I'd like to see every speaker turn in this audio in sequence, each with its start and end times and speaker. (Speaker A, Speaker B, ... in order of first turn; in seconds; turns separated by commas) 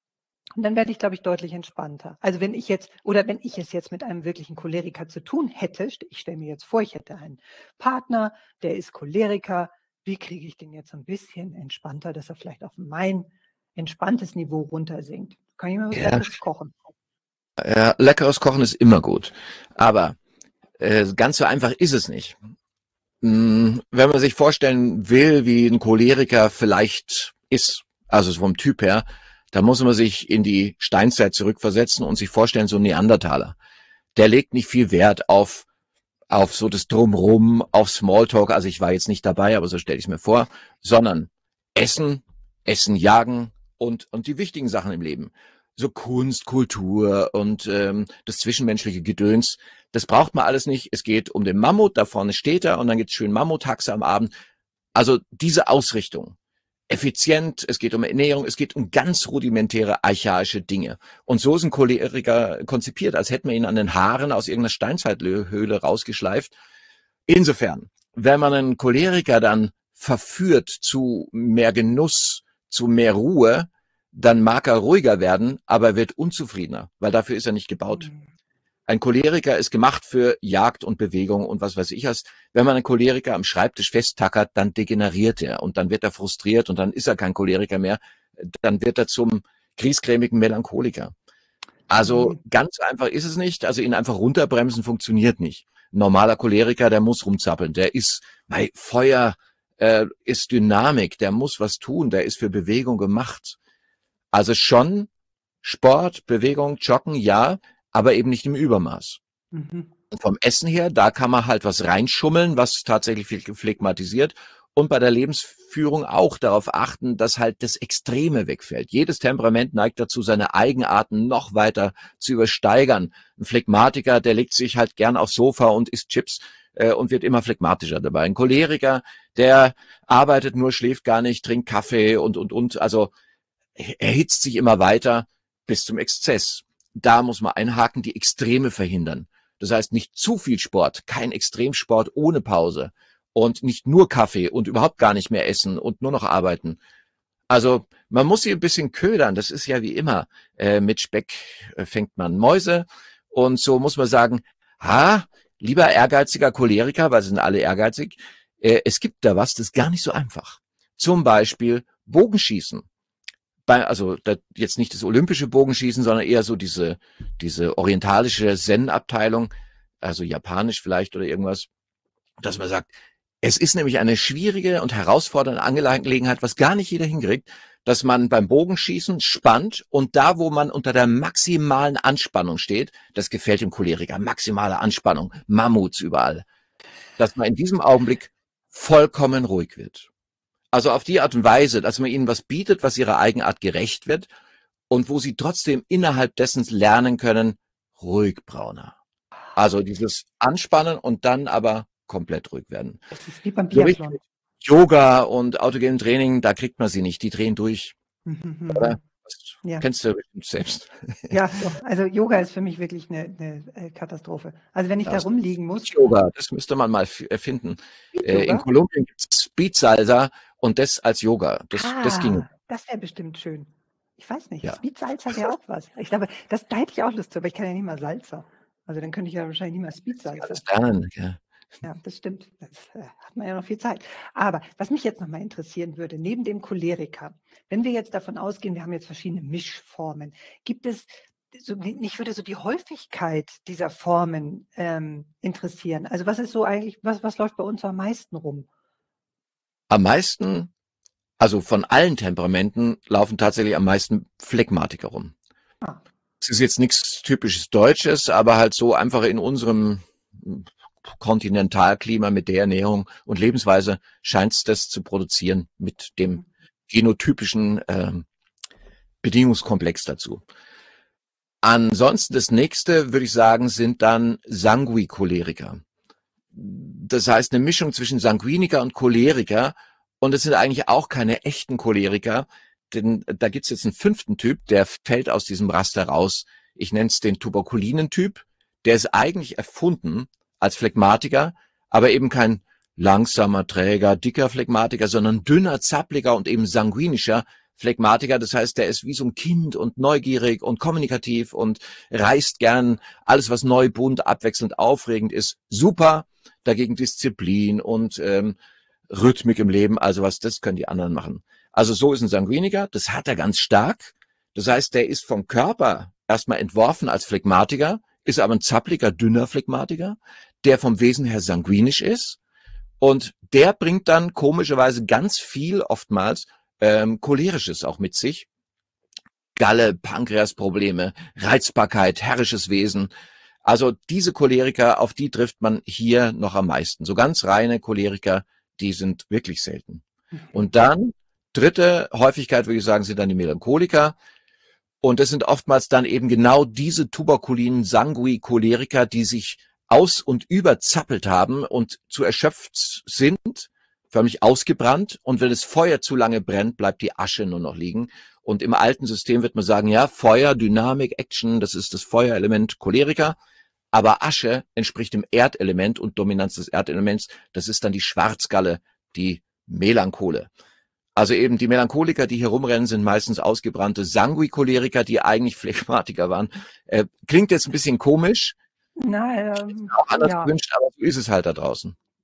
Speaker A: 0.6-16.9, Speaker B: 15.9-16.3, Speaker B: 17.6-20.2, Speaker B: 20.8-22.4, Speaker B: 23.2-33.5, Speaker B: 34.1-35.6, Speaker B: 36.3-54.3, Speaker B: 54.9-56.3, Speaker B: 56.9-66.5, Speaker B: 67.3-78.1, Speaker B: 78.9-91.1, Speaker B: 91.9-103.6, Speaker A: 92.0-92.4, Speaker B: 104.3-105.1, Speaker B: 105.6-109.2, Speaker A: 109.5-109.9, Speaker B: 110.1-133.1, Speaker B: 133.8-146.8, Speaker B: 147.5-162.8, Speaker B: 163.7-169.5, Speaker B: 170.0-171.7, Speaker B: 172.4-186.4, Speaker B: 187.2-190.1, Speaker B: 190.7-194.3, Speaker B: 194.9-199.0, Speaker B: 199.5-203.0, Speaker A: 203.1-204.2, Speaker B: 203.7-207.9, Speaker A: 208.2-209.0, Speaker B: 208.7-211.3, Speaker A: 211.3-216.0, Speaker B: 215.8-222.4, Speaker A: 218.1-218.6, Speaker A: 221.7-230.6, Speaker B: 230.4-231.4, Speaker A: 231.8-248.7, Speaker B: 249.9-250.7, Speaker B: 251.4-255.3, Speaker B: 256.4-268.2, Speaker B: 269.2-270.4, Speaker B: 271.6-275.8, Speaker B: 276.5-308.6, Speaker B: 309.1-322.4, Speaker B: 323.0-328.5, Speaker B: 329.6-333.1, Speaker B: 333.6-344.1, Speaker B: 345.0-363.4, Speaker B: 363.9-370.5, Speaker B: 371.1-378.6, Speaker A: 379.0-380.5, Speaker B: 379.9-381.9